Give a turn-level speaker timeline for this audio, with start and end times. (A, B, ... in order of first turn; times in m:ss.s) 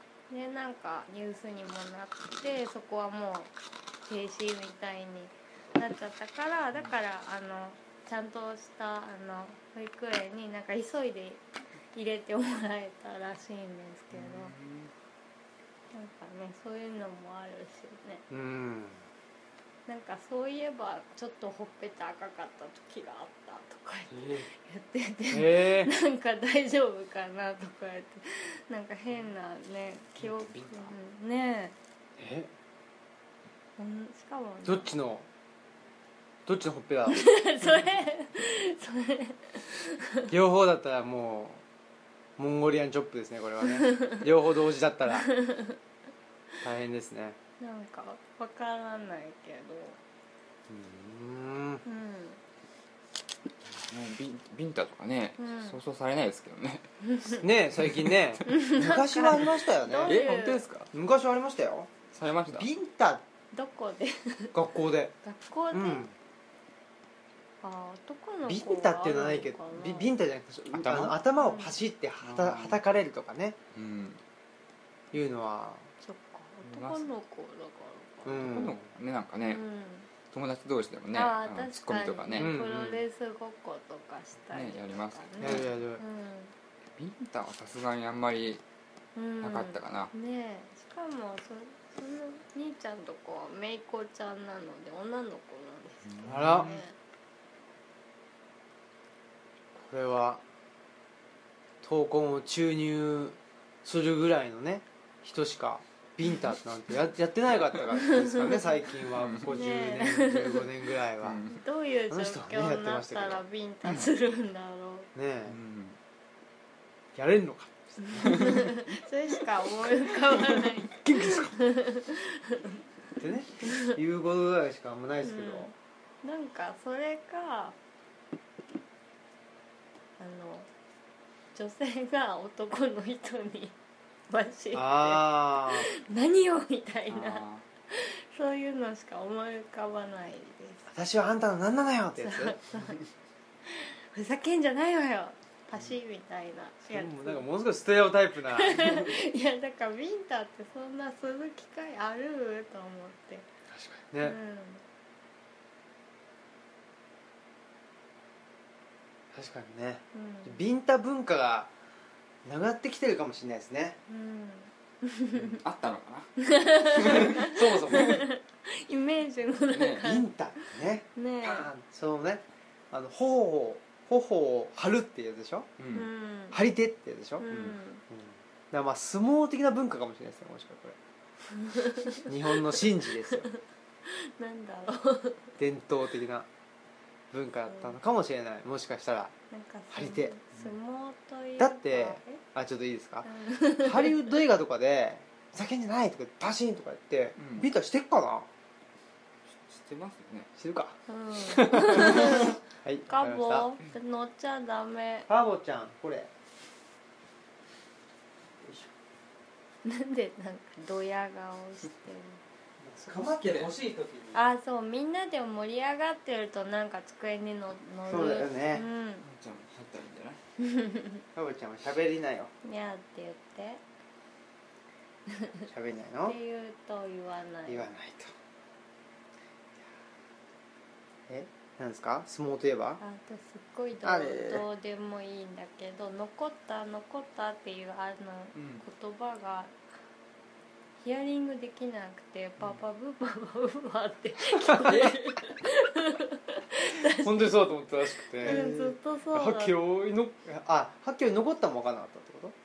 0:00.3-0:03.5 A
0:04.1-0:14.5 A
0:14.1-0:14.9 B
0:15.9-0:18.2 A
0:18.3-0:19.0 C
0:19.9-0:31.8 A
0:25.3-0:25.9 C
0:30.2-0:30.9 B
0:32.2-0:32.5 C
0:33.8-0:34.9 A
0:34.6-0:35.2 C
0:36.4-0:37.3 C
0:37.1-0:40.3 A
0:40.3-0:41.6 C
0:42.4-0:45.3 C
0:43.8-0:44.2 A
0:45.2-0:45.8 A
0:46.6-0:47.4 C
0:47.6-0:50.0 A
0:50.7-0:51.8 C
0:51.8-0:52.4 A
0:53.6-0:57.0 B
0:55.4-0:55.8 A
0:57.1-0:57.4 A
0:57.4-1:00.4 C
0:57.8-0:58.1 B
0:58.5-1:00.6 A
1:00.1-1:00.9 B
1:00.9-1:01.9 C
1:02.1-1:02.7 B
1:02.5-1:03.2 C
1:03.5-1:04.6 A
1:04.5-1:05.1 C
1:05.2-1:06.1 A
1:05.7-1:06.1 C
1:07.6-1:10.1 A
1:08.5-1:13.6 C
1:10.7-1:11.2 B
1:11.4-1:11.7 A
1:12.2-1:12.8 B
1:13.7-1:14.2 B
1:15.1-1:15.9 C
1:16.0-1:18.7 A
1:16.6-1:17.0 B
1:18.2-1:18.8 C
1:18.4-1:19.6 B
1:19.4-1:20.1 A
1:20.3-1:22.6 B
1:21.1-1:26.5 A
1:22.4-1:23.0 C
1:24.5-1:25.7 B
1:25.4-1:26.0 C
1:27.0-1:28.6 B
1:29.1-1:37.0 A
1:29.4-1:30.1 B
1:36.1-1:36.8 B
1:36.2-1:36.7 C
1:39.8-1:40.4 C
1:41.8-1:51.4 C
1:48.0-1:48.8 A
1:49.2-1:49.6 B
1:49.5-1:50.7 A
1:51.2-1:51.5 B
1:51.5-1:55.1 A
1:52.1-1:53.4 C
1:55.1-1:55.6 C
1:55.5-1:56.0 B
1:57.1-1:58.7 C
1:58.0-2:02.8 A
2:00.3-2:01.5 C
2:03.2-2:05.7 C
2:03.6-2:04.0 A
2:05.2-2:07.8 A
2:10.2-2:10.7 A
2:11.5-2:13.8 A
2:14.3-2:20.9 A
2:14.7-2:15.9 C
2:17.1-2:17.6 B
2:20.9-2:22.6 C
2:22.2-2:23.0 A
2:23.6-2:27.4 A
2:26.9-2:29.1 C
2:28.5-2:33.5 A
2:33.7-2:34.4 C
2:34.2-2:34.8 A
2:39.3-2:41.7 C
2:40.1-2:40.6 A
2:42.4-2:44.0 C
2:44.1-2:45.6 A
2:45.4-2:46.3 B
2:46.4-2:50.3 A
2:46.9-2:47.5 B
2:47.1-2:48.2 C
2:49.7-2:50.0 B
2:50.0-2:55.7 C
2:51.2-2:51.7 A
2:55.8-2:56.1 B
2:55.9-2:56.6 A
2:56.5-3:01.0 C
2:57.4-2:58.0 A
3:01.5-3:02.8 A
3:02.2-3:03.5 C
3:03.3-3:05.5 A
3:05.6-3:06.5 C
3:07.3-3:09.3 C
3:07.7-3:08.0 A
3:09.5-3:12.4 A
3:09.9-3:10.3 C
3:11.6-3:13.3 C
3:13.2-3:14.3 A
3:13.8-3:18.5 C
3:17.4-3:17.7 B
3:19.5-3:20.5 B
3:20.6-3:23.7 C
3:21.1-3:25.3 A
3:25.3-3:26.3 C
3:28.6-3:28.9 C
3:29.8-3:32.4 A
3:32.8-3:34.4 C
3:33.1-3:33.7 B
3:34.3-3:39.2 A
3:38.1-3:38.9 C
3:39.2-3:40.4 B
3:40.6-3:41.2 A
3:41.4-3:42.5 C
3:42.6-3:43.8 A
3:45.3-3:45.7 A
3:45.7-3:46.4 C
3:46.2-3:47.9 A
3:47.7-3:48.3 C
3:51.3-3:53.0 C
3:53.0-3:59.8 A
3:54.0-3:54.6 C
3:58.6-3:58.8 B
4:01.0-4:09.8 A
4:04.9-4:05.2 B
4:07.1-4:12.6 C